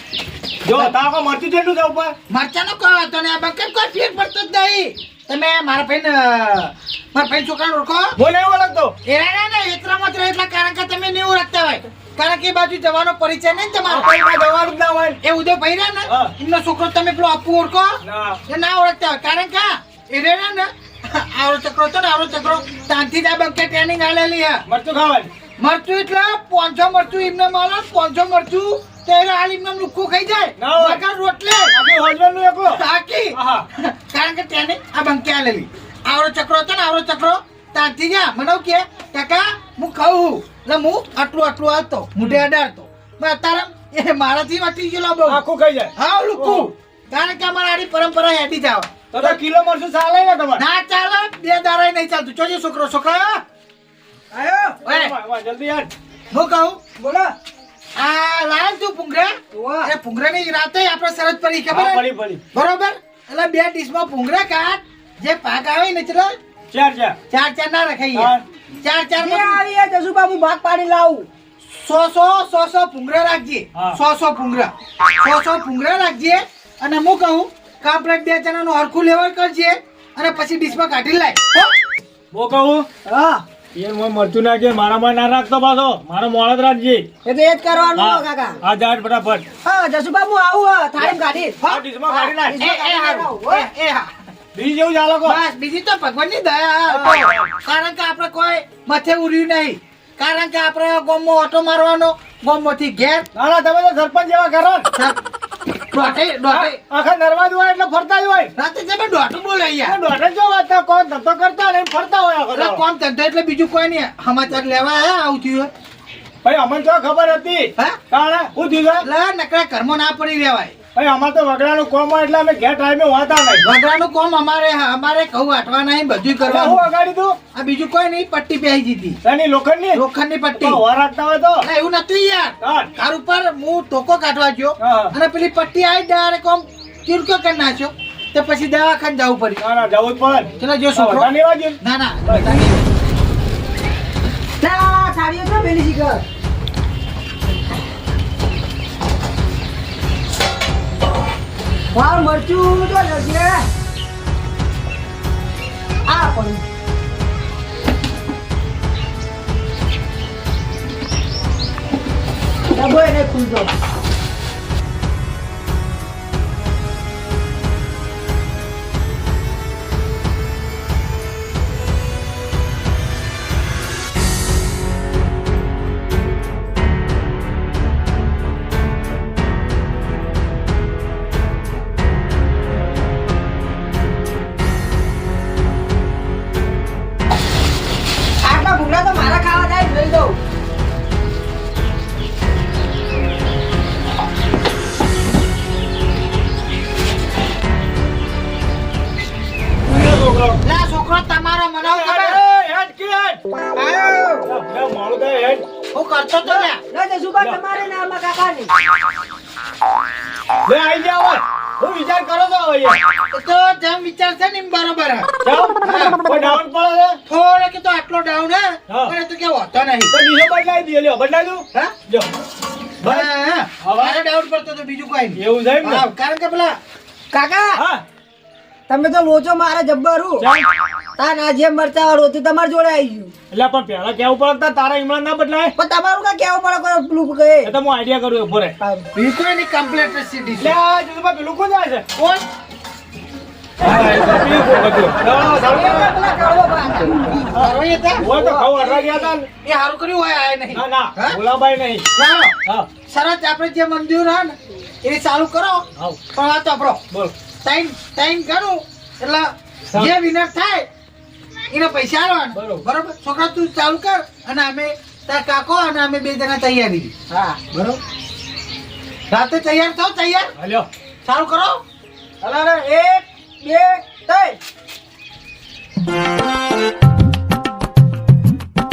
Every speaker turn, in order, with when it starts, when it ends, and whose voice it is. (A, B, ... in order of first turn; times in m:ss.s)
0:00.6-0:02.1 A
0:02.3-0:08.2 B
0:08.2-0:09.0 A
0:09.0-0:14.1 B
0:13.9-0:15.2 A
0:15.2-0:24.6 B
0:16.1-0:16.3 A
0:18.0-0:18.4 A
0:24.7-0:25.3 A
0:25.6-0:31.7 B
0:30.6-0:31.0 A
0:31.7-0:32.8 A
0:32.7-0:45.4 B
0:33.3-0:33.7 A
0:45.3-0:46.7 A
0:46.0-0:49.4 B
0:49.1-0:50.6 A
0:50.6-0:53.4 B
0:54.3-0:54.8 C
0:54.8-0:55.9 A
0:54.8-0:55.1 B
0:56.3-0:56.8 B
0:57.0-0:57.3 C
0:58.0-1:06.3 B
0:59.5-0:59.9 C
1:01.7-1:02.4 A
1:06.7-1:07.2 A
1:07.3-1:09.6 B
1:08.1-1:08.4 A
1:09.2-1:11.3 C
1:11.6-1:21.7 B
1:22.3-1:22.9 A
1:23.0-1:23.4 C
1:23.7-1:27.1 A
1:27.2-1:28.6 C
1:27.9-1:29.4 A
1:29.6-1:31.6 C
1:31.0-1:32.6 A
1:31.6-1:34.1 B
1:32.4-1:33.7 C
1:34.5-1:35.4 A
1:35.2-1:43.3 B
1:36.9-1:37.5 A
1:43.4-1:44.9 A
1:45.9-1:46.8 B
1:46.5-1:48.5 A
1:48.6-1:50.0 B
1:49.8-1:52.8 A
1:52.5-1:55.7 B
1:56.4-1:59.0 A
1:59.0-2:00.8 B
2:00.9-2:03.6 A
2:03.6-2:06.8 B
2:06.4-2:07.4 A
2:07.5-2:09.2 B
2:09.2-2:10.0 A
2:09.9-2:10.8 B
2:10.5-2:11.6 A
2:11.6-2:19.6 B
2:12.6-2:12.9 A
2:14.8-2:15.1 A
2:19.6-2:22.5 A
2:20.6-2:22.8 B
2:24.6-2:26.2 C
2:31.9-2:33.7 C
2:36.0-2:36.6 C
2:42.7-2:43.7 C
3:08.4-3:10.4 C
3:19.9-3:20.6 A
3:20.6-3:22.4 B
3:21.8-3:23.4 A
3:23.8-3:24.5 C
3:24.5-3:25.6 A
3:25.9-3:26.8 B
3:26.4-3:28.7 C
3:30.7-3:33.0 A
3:33.3-3:35.3 B
3:35.4-3:37.2 A
3:35.8-3:36.4 B
3:37.2-3:40.2 B
3:38.9-3:39.1 A
3:40.1-3:42.3 A
3:43.0-3:43.3 A
3:43.0-3:46.8 B
3:43.8-3:44.2 A
3:45.4-3:46.0 A
3:47.3-3:47.8 C
3:47.8-3:48.0 A
3:48.9-3:50.5 C
3:50.4-3:50.7 A
3:51.2-3:53.3 C
3:53.5-3:55.7 A
3:55.8-3:57.7 C
3:57.6-3:58.8 A
3:58.8-3:59.1 C
3:59.1-4:00.7 B
4:00.6-4:02.1 A
4:02.1-4:02.4 B
4:03.8-4:06.2 A
4:05.5-4:07.4 C
4:07.5-4:09.0 B
4:07.5-4:09.5 A
4:09.6-4:11.4 B
4:10.7-4:12.1 A
4:12.1-4:12.5 B
4:13.1-4:17.0 B
4:16.0-4:16.2 A
4:17.6-4:20.9 B
4:21.7-4:27.1 B
4:22.6-4:22.8 A
4:27.3-4:27.8 C
4:29.3-4:30.5 B
4:30.6-4:30.9 A
4:31.2-4:31.8 B
4:32.4-4:34.6 C